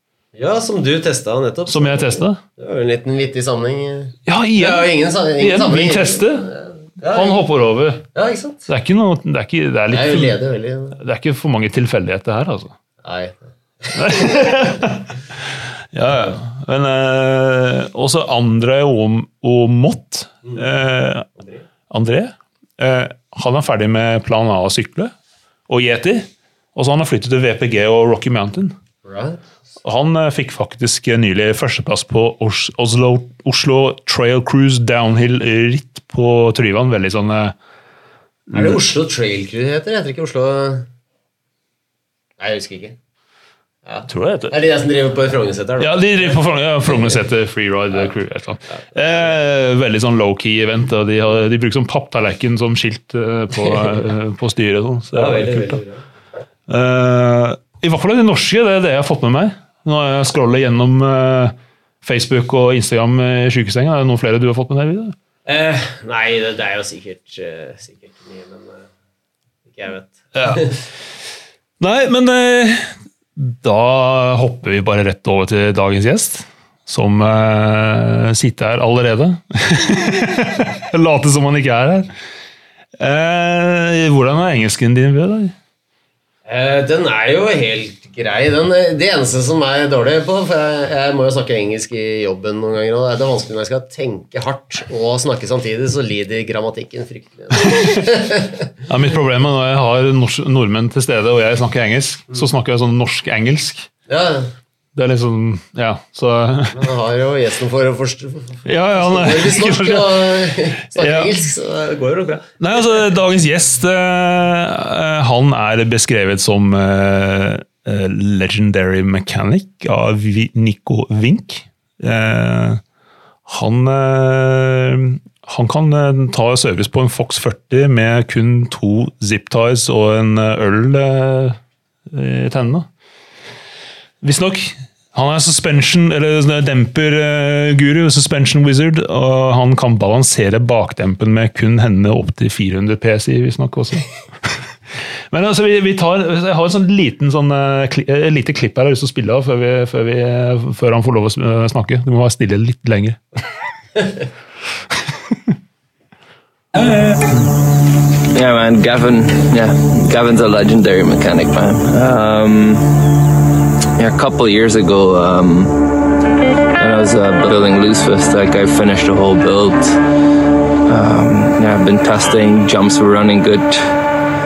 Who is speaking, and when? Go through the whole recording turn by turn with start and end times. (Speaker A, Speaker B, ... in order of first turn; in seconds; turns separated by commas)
Speaker A: 0.3-7.4, Speaker B: 1.7-2.4, Speaker B: 4.3-6.5, Speaker B: 7.0-8.1, Speaker A: 8.1-8.7, Speaker B: 8.7-10.4, Speaker A: 9.9-11.0, Speaker B: 11.0-12.7, Speaker A: 13.0-14.8, Speaker B: 13.9-21.3, Speaker B: 21.9-25.1, Speaker B: 25.7-28.8, Speaker A: 29.1-29.5, Speaker B: 29.8-37.5, Speaker B: 38.5-38.8, Speaker A: 38.5-40.9, Speaker A: 42.4-43.0, Speaker A: 43.9-47.2, Speaker B: 44.1-44.5, Speaker B: 45.8-55.8, Speaker A: 55.1-56.0, Speaker B: 56.7-65.2, Speaker A: 65.5-68.9, Speaker A: 69.7-70.8, Speaker B: 70.3-70.7, Speaker B: 71.8-82.1, Speaker B: 83.0-85.5, Speaker A: 86.5-98.7, Speaker B: 97.6-97.9, Speaker B: 98.9-103.9, Speaker A: 104.1-104.5, Speaker B: 105.0-106.8, Speaker A: 106.7-112.5, Speaker B: 108.7-111.4, Speaker B: 112.6-122.8, Speaker B: 123.5-131.6, Speaker B: 132.1-132.9, Speaker B: 134.2-144.7, Speaker B: 145.3-153.2, Speaker C: 158.2-163.2, Speaker C: 164.0-166.0, Speaker C: 166.8-170.0, Speaker C: 170.8-174.0